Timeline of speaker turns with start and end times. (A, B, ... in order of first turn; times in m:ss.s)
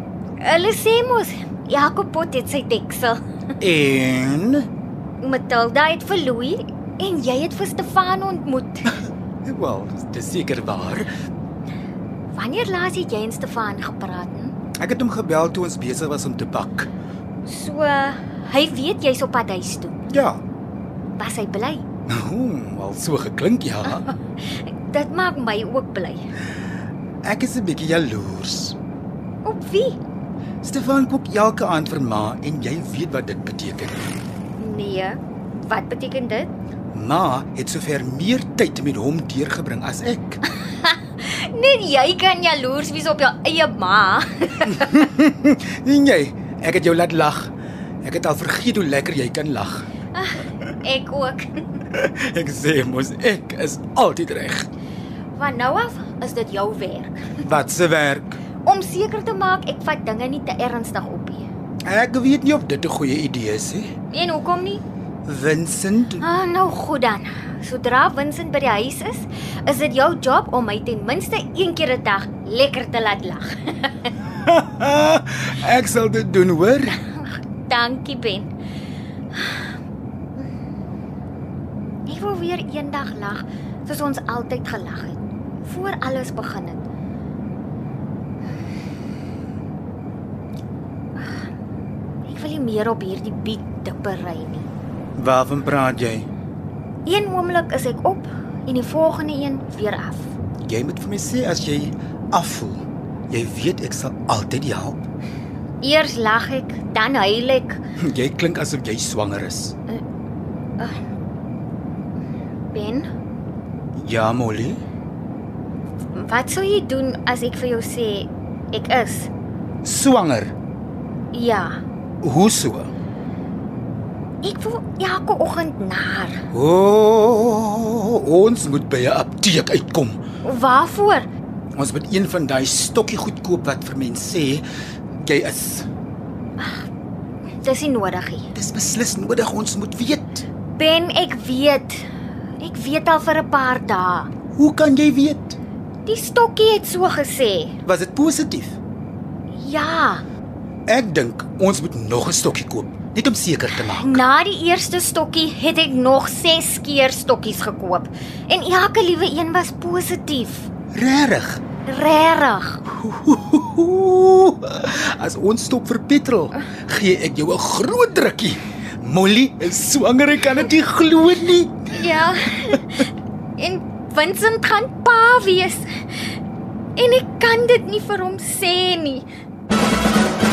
0:00.4-0:03.2 A
0:03.6-0:04.7 B
0:05.2-0:08.9 A
0:09.4-0:11.1 B
0:12.3-0:14.5 A
0:14.8-0:16.9 B
0:17.4-0:20.0 A
0:20.1-0:20.4 B
0:21.1-0:21.8 A
0:22.1-0:24.0 B
0:24.0-0:26.2 A
0:27.2-0:28.8 B
0:29.4-0:30.0 A
0:30.6-0:34.1 B
0:34.6-0:36.5 A
0:36.9-0:40.4 B
0:40.6-0:45.0 A
0:44.6-0:49.9 B
0:50.1-0:51.8 A
0:51.9-0:54.7 B
0:55.3-0:57.3 A
0:57.4-0:58.4 B
0:58.6-1:01.5 A
1:01.8-1:03.9 B
1:04.1-1:04.8 A
1:05.2-1:06.2 B
1:06.2-1:14.1 A
1:14.2-1:17.0 B
1:17.0-1:18.5 A
1:19.3-1:19.7 A
1:22.0-1:26.8 A
1:31.2-1:31.4 A
1:32.2-1:34.7 A
1:35.2-1:36.3 B
1:37.0-1:40.3 A
1:40.7-1:45.0 B
1:45.8-1:47.8 A
1:48.0-1:49.7 B
1:52.7-1:53.1 A
1:54.0-1:54.8 B
1:56.1-1:59.3 A
1:59.8-2:00.5 B
2:01.3-2:01.8 A
2:02.2-2:02.9 B
2:04.4-2:06.4 A
2:06.5-2:10.2 B
2:10.4-2:11.3 A
2:11.8-2:15.9 B
2:16.6-2:16.9 A
2:17.6-2:18.5 A
2:18.5-2:20.4 B
2:20.8-2:22.0 A
2:22.6-2:24.3 A
2:24.5-2:25.6 B
2:26.0-2:27.8 A
2:27.8-2:28.8 B
2:29.5-2:30.2 A
2:30.9-2:34.2 B
2:33.8-2:40.7 A
2:40.9-2:41.6 B
2:41.8-2:42.8 A
2:42.8-2:52.0 B
2:51.9-2:53.0 A
2:53.6-2:56.3 A
2:57.0-2:59.2 A